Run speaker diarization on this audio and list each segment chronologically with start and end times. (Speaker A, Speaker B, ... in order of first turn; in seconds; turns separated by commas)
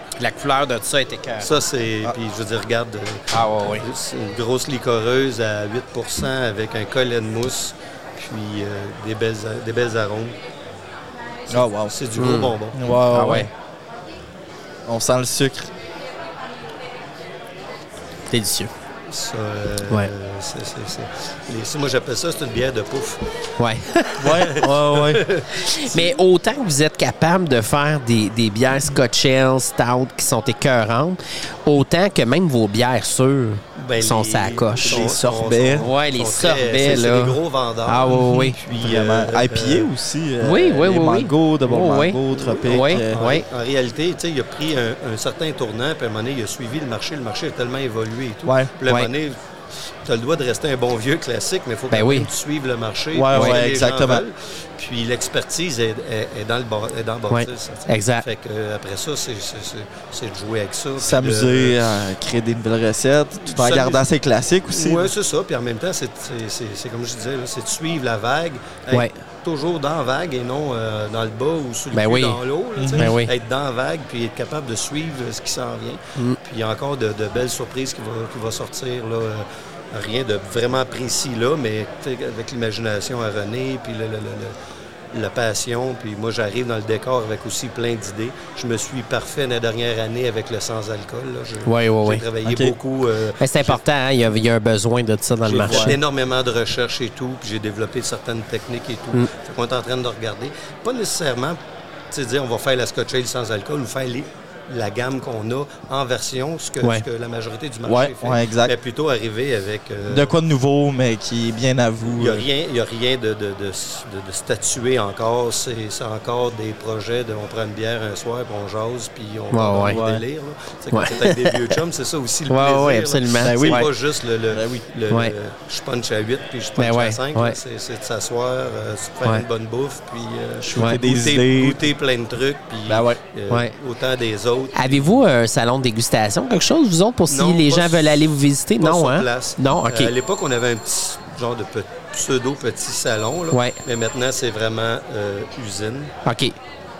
Speaker A: 0.2-1.5, Speaker B: 1.4-10.3, Speaker A: 3.3-3.8, Speaker C: 11.5-12.0, Speaker B: 11.5-12.8, Speaker A: 12.2-12.6, Speaker C: 12.7-13.5, Speaker A: 13.1-13.5, Speaker C: 14.8-15.7, Speaker A: 18.3-18.7, Speaker B: 19.1-23.2, Speaker A: 23.6-24.2, Speaker C: 24.2-25.2, Speaker B: 24.5-26.2, Speaker A: 25.6-35.1, Speaker B: 33.8-39.9, Speaker C: 34.8-35.9, Speaker A: 35.8-38.5, Speaker C: 38.1-43.2, Speaker A: 40.4-43.4, Speaker B: 42.4-49.4, Speaker C: 48.4-48.7, Speaker B: 50.0-61.9, Speaker A: 51.9-52.3, Speaker C: 53.1-54.2, Speaker A: 53.3-53.6, Speaker A: 57.3-58.2, Speaker C: 61.0-65.1, Speaker B: 63.5-64.0, Speaker B: 64.7-84.5, Speaker A: 71.9-72.4, Speaker C: 72.8-73.1, Speaker A: 72.9-73.3, Speaker B: 85.1-93.8, Speaker A: 91.6-92.2, Speaker C: 92.4-92.8, Speaker A: 93.4-96.0, Speaker B: 95.5-101.6, Speaker C: 95.5-96.0, Speaker B: 102.1-110.3, Speaker C: 107.8-108.7, Speaker C: 110.1-112.4, Speaker B: 112.1-135.2, Speaker A: 119.5-120.0, Speaker C: 119.8-120.2, Speaker A: 120.9-121.7, Speaker A: 122.5-123.9, Speaker C: 123.4-123.9, Speaker C: 124.5-124.8, Speaker A: 126.8-127.6, Speaker C: 130.6-131.8, Speaker C: 132.9-133.2, Speaker A: 133.5-133.7, Speaker A: 134.7-140.1, Speaker B: 137.3-146.1, Speaker A: 143.5-143.8, Speaker A: 146.2-146.5